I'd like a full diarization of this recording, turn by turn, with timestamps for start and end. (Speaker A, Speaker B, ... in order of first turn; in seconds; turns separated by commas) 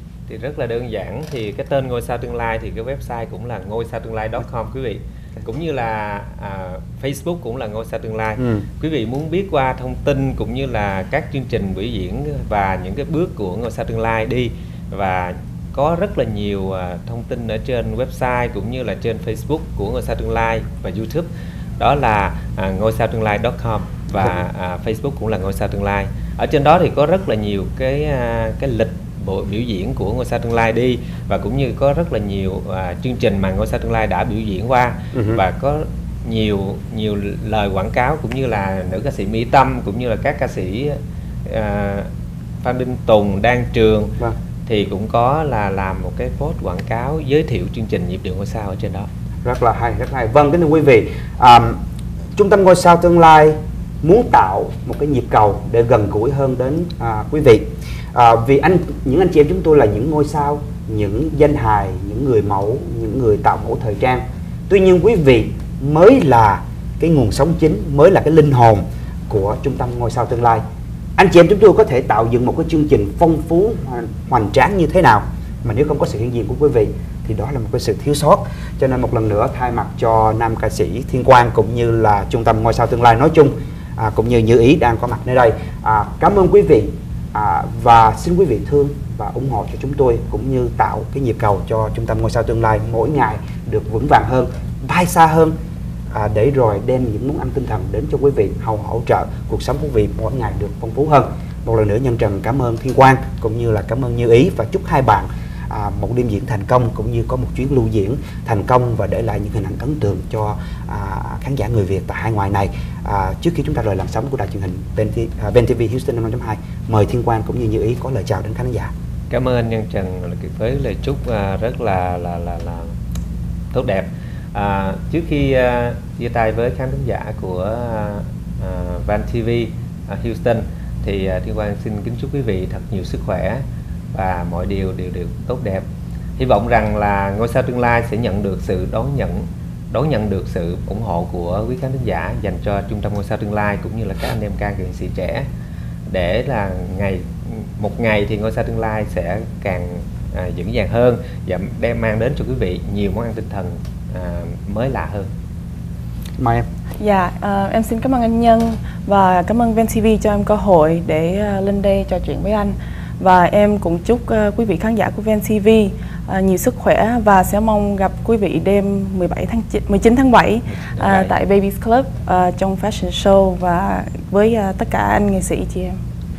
Speaker A: 0.3-42.1, Speaker B: 8.4-8.7, Speaker B: 35.1-35.4, Speaker A: 42.6-49.1, Speaker B: 49.5-51.8, Speaker B: 52.4-70.6, Speaker B: 71.2-95.5, Speaker B: 96.1-118.9, Speaker A: 119.3-122.9, Speaker A: 123.7-135.8, Speaker A: 136.4-145.5, Speaker A: 146.1-155.3, Speaker B: 156.4-156.7, Speaker C: 157.0-176.0, Speaker A: 170.9-171.3